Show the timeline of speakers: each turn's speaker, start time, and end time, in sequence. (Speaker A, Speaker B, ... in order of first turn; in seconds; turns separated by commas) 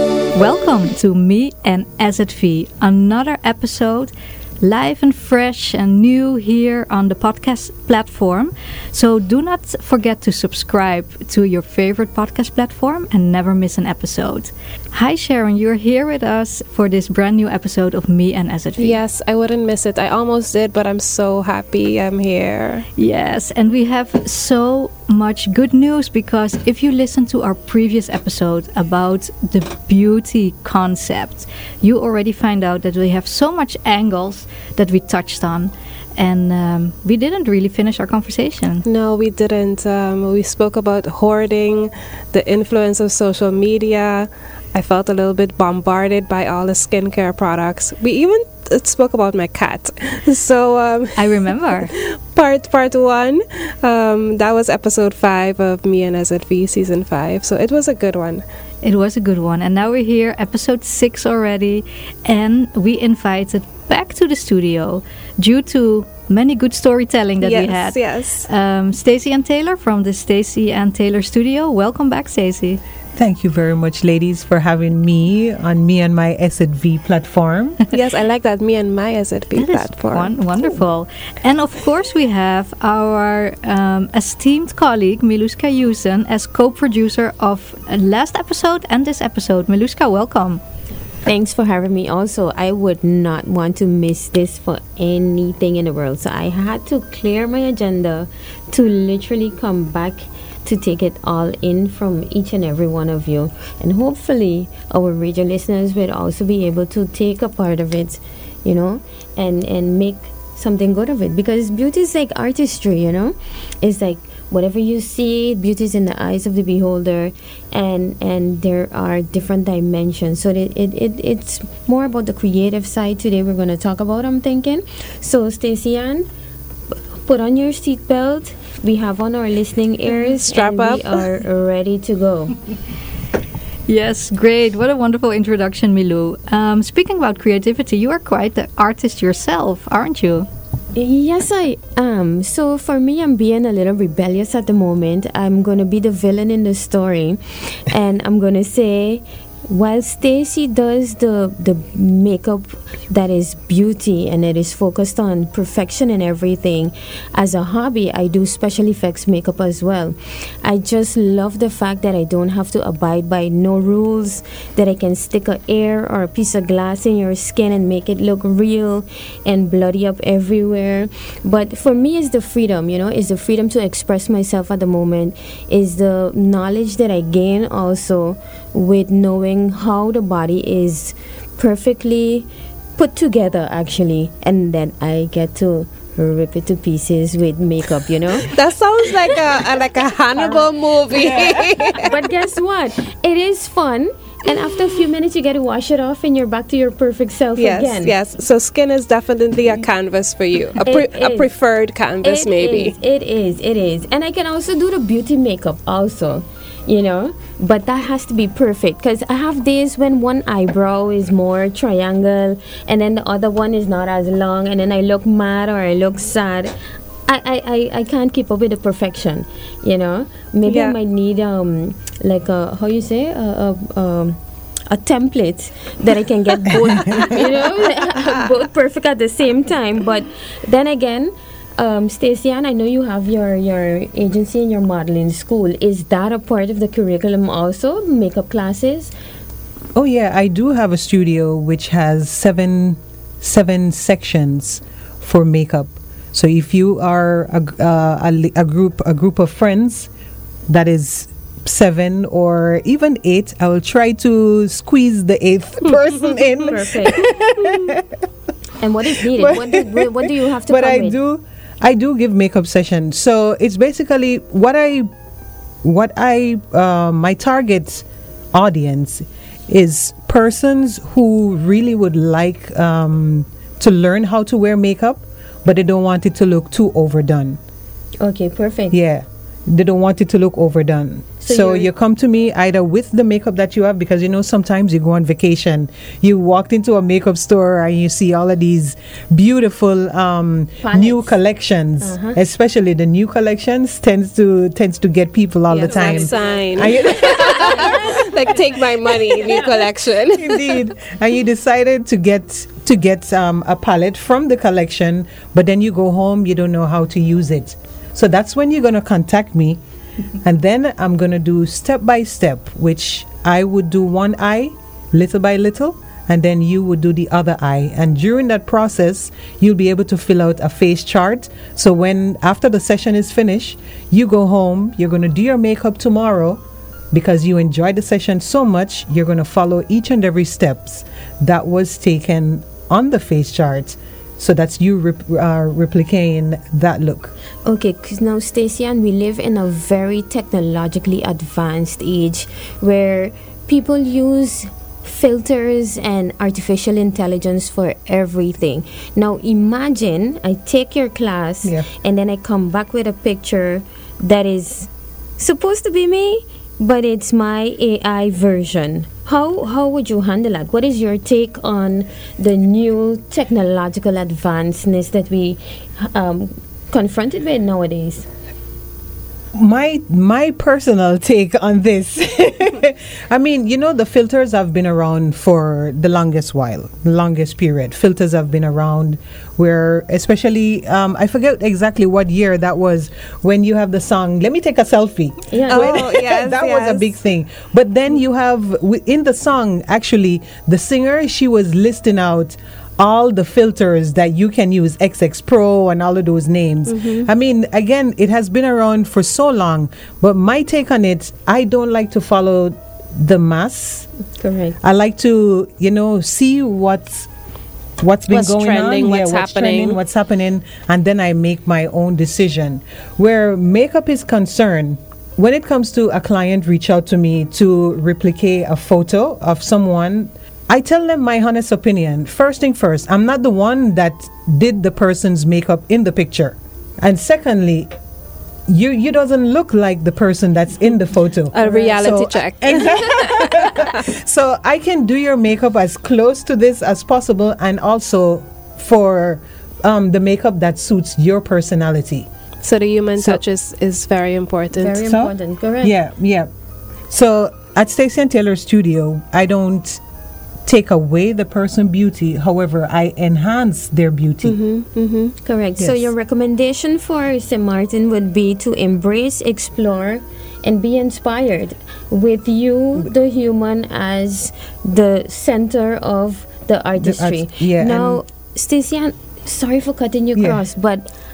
Speaker A: 0.3-19.0, Speaker B: 18.8-22.8, Speaker A: 23.0-38.8, Speaker B: 38.9-58.4, Speaker A: 51.1-51.9, Speaker A: 58.8-72.8, Speaker B: 67.4-68.5, Speaker C: 73.2-77.8, Speaker B: 77.9-80.3, Speaker A: 79.6-90.6, Speaker D: 91.2-126.2, Speaker D: 127.2-132.6, Speaker B: 130.2-131.2, Speaker A: 133.9-140.5, Speaker D: 140.9-188.5, Speaker B: 188.5-192.2, Speaker C: 191.1-191.9, Speaker D: 191.9-198.1, Speaker B: 197.6-202.9, Speaker D: 200.8-201.5, Speaker D: 202.2-216.8, Speaker D: 217.3-224.4, Speaker B: 220.7-221.0, Speaker D: 224.9-239.1, Speaker C: 227.1-227.3, Speaker C: 239.9-250.1, Speaker C: 250.7-258.2, Speaker D: 256.7-257.3, Speaker D: 258.8-261.1, Speaker C: 259.3-265.1, Speaker C: 265.8-277.6, Speaker D: 278.2-279.0, Speaker C: 278.9-298.1, Speaker D: 281.4-281.9, Speaker D: 290.8-291.3, Speaker D: 292.0-292.4, Speaker B: 295.7-300.8, Speaker D: 295.8-296.9, Speaker D: 297.6-298.1, Speaker C: 300.3-309.8, Speaker C: 310.4-337.3, Speaker D: 337.6-368.3, Speaker C: 369.5-404.1, Speaker D: 385.5-385.9, Speaker B: 385.7-387.1, Speaker B: 396.9-397.3, Speaker D: 404.4-404.8, Speaker C: 404.8-407.3, Speaker C: 408.0-427.9, Speaker B: 408.3-410.0, Speaker C: 428.7-442.3, Speaker B: 431.5-433.9, Speaker B: 442.6-445.0, Speaker D: 444.7-445.9, Speaker C: 445.0-446.5, Speaker C: 447.1-450.0, Speaker C: 450.6-454.6, Speaker B: 454.4-455.3, Speaker D: 455.4-471.1, Speaker C: 455.8-456.1, Speaker C: 467.0-468.2, Speaker C: 470.4-470.6